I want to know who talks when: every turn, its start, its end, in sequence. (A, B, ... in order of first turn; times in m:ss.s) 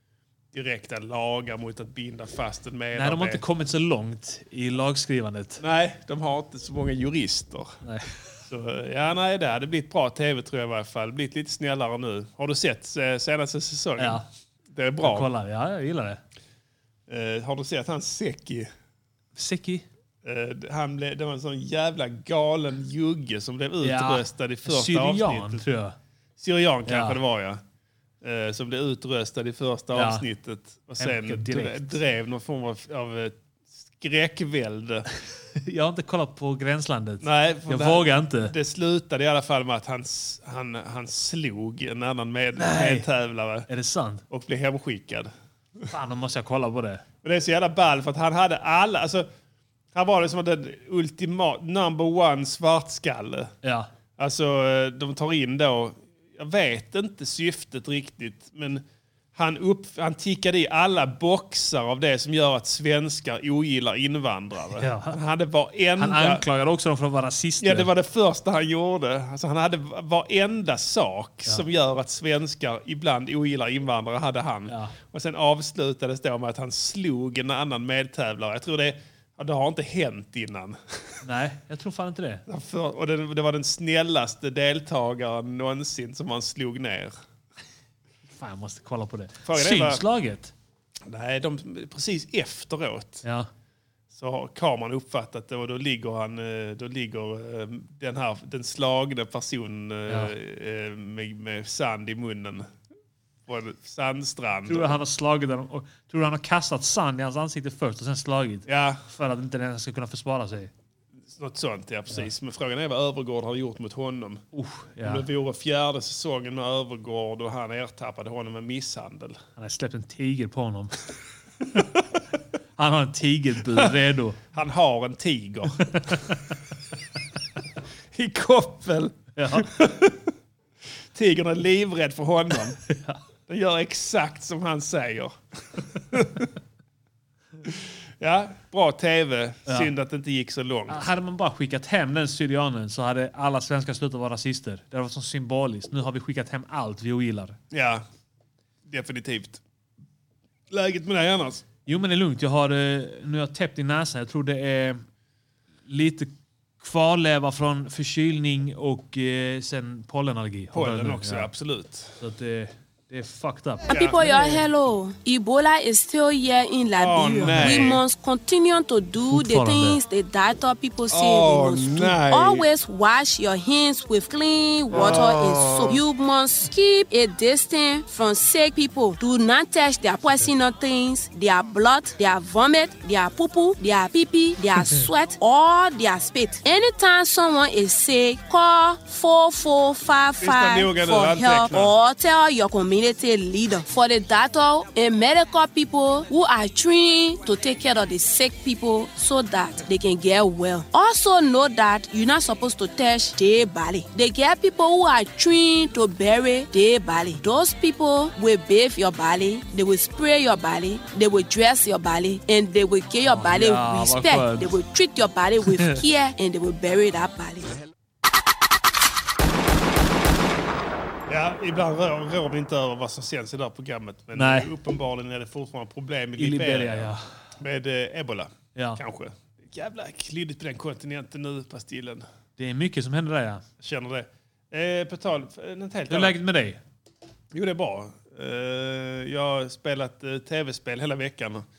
0:00.5-0:03.4 A
0:02.9-0:05.6 B
0:05.6-0:07.8 A
0:07.8-0:08.2 B
0:08.5-0:15.3 A
0:14.0-0:14.3 B
0:15.0-0:16.2 B
0:17.1-0:18.7 A
0:19.4-0:19.9 B
0:20.2-0:25.6 A
0:23.8-0:26.0 B
0:26.4-0:27.6 A
0:26.9-0:27.2 B
0:28.2-0:35.1 A
0:29.9-0:30.2 B
0:31.0-0:32.0 B
0:35.6-0:38.5 B
0:37.2-0:43.7 A
0:42.6-0:43.1 B
0:43.7-0:44.2 B
0:44.3-0:45.3 A
0:45.9-0:47.0 B
0:47.2-0:49.3 A
0:49.9-0:53.5 A
0:53.6-0:53.9 B
0:54.2-0:58.8 A
0:59.4-1:06.4 A
1:04.8-1:05.2 B
1:06.0-1:07.9 B
1:07.6-1:21.2 A
1:14.7-1:15.0 B
1:21.2-1:22.4 B
1:22.5-1:27.2 A
1:28.3-1:30.5 B
1:29.4-1:30.0 A
1:31.1-1:33.2 A
1:33.2-1:33.5 B
1:34.1-1:42.7 A
1:40.1-1:40.3 B
1:43.5-1:45.0 A
1:44.7-1:50.7 B
1:48.7-1:49.0 A
1:51.3-1:54.4 A
1:54.5-1:55.2 B
1:55.0-1:59.4 A
1:59.6-2:01.0 B
2:02.8-2:04.4 B
2:03.7-2:04.0 A
2:04.5-2:06.2 A
2:05.8-2:06.6 B
2:08.1-2:10.3 A
2:09.4-2:09.7 B
2:11.1-2:12.8 A
2:12.9-2:13.2 B
2:13.5-2:16.5 A
2:17.6-2:21.0 A
2:20.9-2:27.6 B
2:27.7-2:28.0 A
2:28.9-2:29.6 A
2:30.7-2:31.6 A
2:31.9-2:35.0 B
2:35.9-2:41.5 B
2:40.7-2:42.2 A
2:42.2-2:43.9 B
2:43.9-3:37.8 C
2:43.9-2:44.6 A
2:47.0-2:48.0 A
2:47.4-2:48.0 B
2:49.3-2:50.0 B
2:51.1-2:52.7 A
2:54.9-2:56.0 A
3:10.4-3:12.0 A
3:33.2-3:34.8 B
3:35.7-3:36.0 B
3:41.3-3:52.3 A
3:44.4-3:44.7 B
3:46.4-3:47.2 B
3:48.8-3:49.0 B
3:52.6-3:53.6 B
3:53.8-3:56.4 A
3:56.1-3:56.8 B
3:57.5-4:01.7 A